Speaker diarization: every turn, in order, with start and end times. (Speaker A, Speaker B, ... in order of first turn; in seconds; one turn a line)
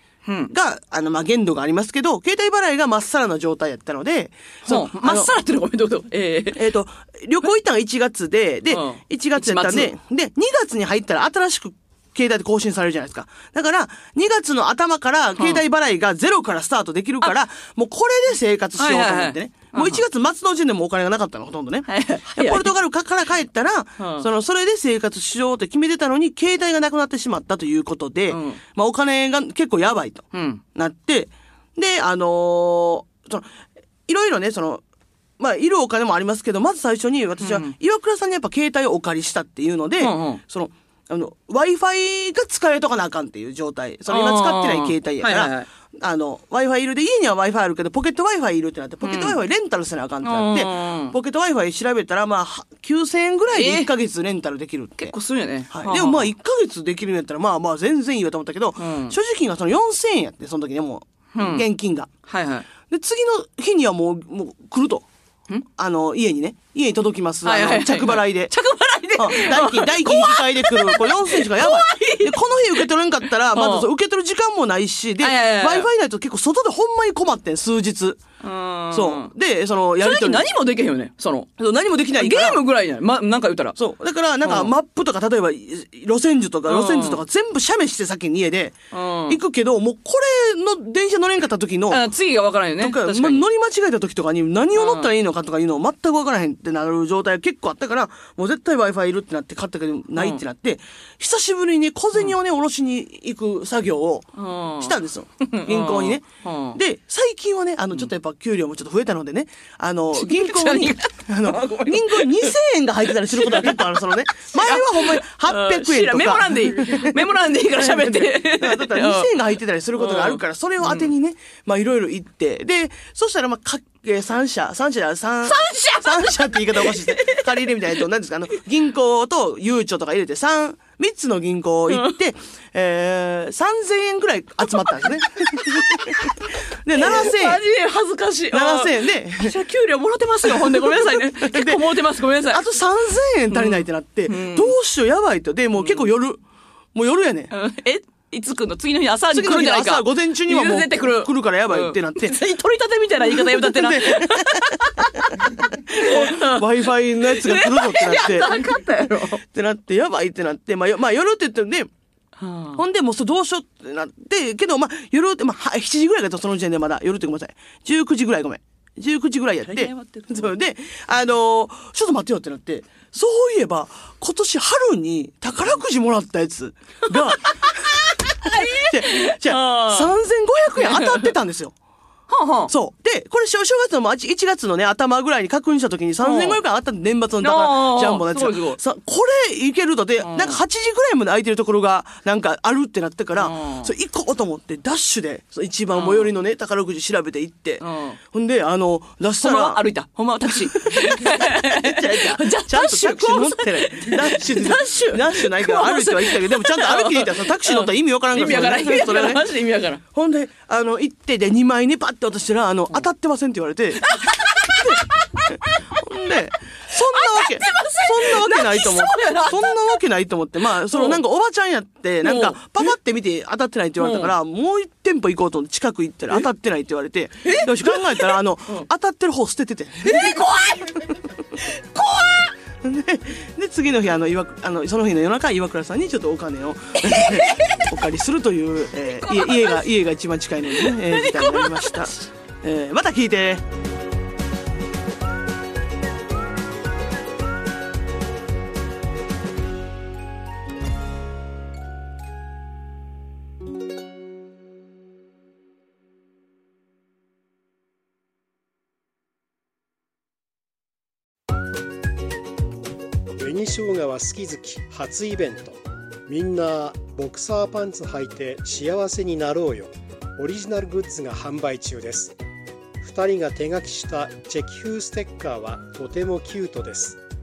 Speaker A: 0.2-0.5
Speaker B: 0.5-5.3
Speaker A: 4.6-6.6
Speaker B: 6.5-33.5
Speaker A: 8.7-9.9
Speaker A: 15.4-15.6
Speaker A: 18.8-20.0
Speaker A: 21.9-22.7
Speaker A: 24.0-24.3
Speaker A: 28.3-28.6
Speaker A: 30.3-30.6
Speaker B: 34.1-34.8
Speaker B: 35.4-55.1
Speaker A: 37.4-37.7
Speaker A: 40.0-40.4
Speaker A: 44.1-45.7
Speaker A: 49.0-49.4
Speaker A: 50.2-51.1
Speaker A: 53.5-53.9
Speaker A: 55.0-56.3
Speaker B: 55.7-62.1
Speaker A: 58.8-59.2
Speaker A: 61.3-61.7
Speaker A: 62.2-62.7
Speaker B: 62.9-65.0
Speaker B: 65.8-68.5
Speaker A: 67.4-72.9
Speaker B: 69.2-78.2
Speaker A: 73.5-73.9
Speaker A: 75.2-75.9
Speaker A: 78.4-79.3
Speaker B: 78.9-80.5
Speaker A: 80.0-81.6
Speaker B: 81.6-82.6
Speaker A: 82.2-83.8
Speaker B: 83.8-92.0
Speaker A: 84.4-84.7
Speaker A: 86.7-87.2
Speaker A: 88.9-89.4
Speaker A: 91.9-93.4
Speaker B: 92.8-137.6
Speaker A: 94.7-95.1
Speaker A: 100.2-100.4
Speaker A: 104.3-106.8
Speaker A: 110.1-112.5
Speaker A: 113.3-113.9
Speaker A: 114.5-119.3
Speaker A: 119.9-121.1
Speaker A: 125.5-127.5
Speaker A: 131.9-132.1
Speaker A: 135.6-136.2
Speaker A: 136.9-142.7
Speaker B: 138.5-139.5
Speaker B: 140.4-141.9
Speaker B: 142.5-146.4
Speaker A: 143.5-144.8
Speaker A: 145.7-146.1
Speaker B: 146.9-147.5
Speaker A: 147.5-159.4
Speaker B: 149.3-152.3
Speaker B: 153.2-158.8
Speaker B: 159.4-161.9
Speaker A: 162.4-162.8
Speaker B: 162.8-181.7
Speaker A: 169.7-170.5
Speaker A: 177.2-180.1
Speaker A: 180.8-181.3
Speaker A: 182.3-182.7
Speaker B: 182.7-199.9
Speaker A: 186.2-186.6
Speaker A: 187.4-188.8
Speaker A: 190.2-190.6
Speaker A: 193.4-193.9
Speaker A: 195.9-196.3
Speaker A: 197.8-198.2
Speaker A: 199.4-210.0
Speaker B: 200.5-209.4
Speaker B: 210.1-214.1
Speaker A: 214.0-215.9
Speaker B: 214.7-230.4
Speaker A: 217.1-220.0
Speaker A: 220.9-221.2
Speaker A: 222.2-222.6
Speaker A: 224.0-224.3
Speaker A: 227.4-228.9
Speaker A: 230.0-232.5
Speaker B: 232.8-243.7
Speaker A: 237.0-237.8
Speaker A: 239.3-239.7
Speaker A: 240.7-242.0
Speaker C: 263.4-272.4
Speaker C: 273.0-277.2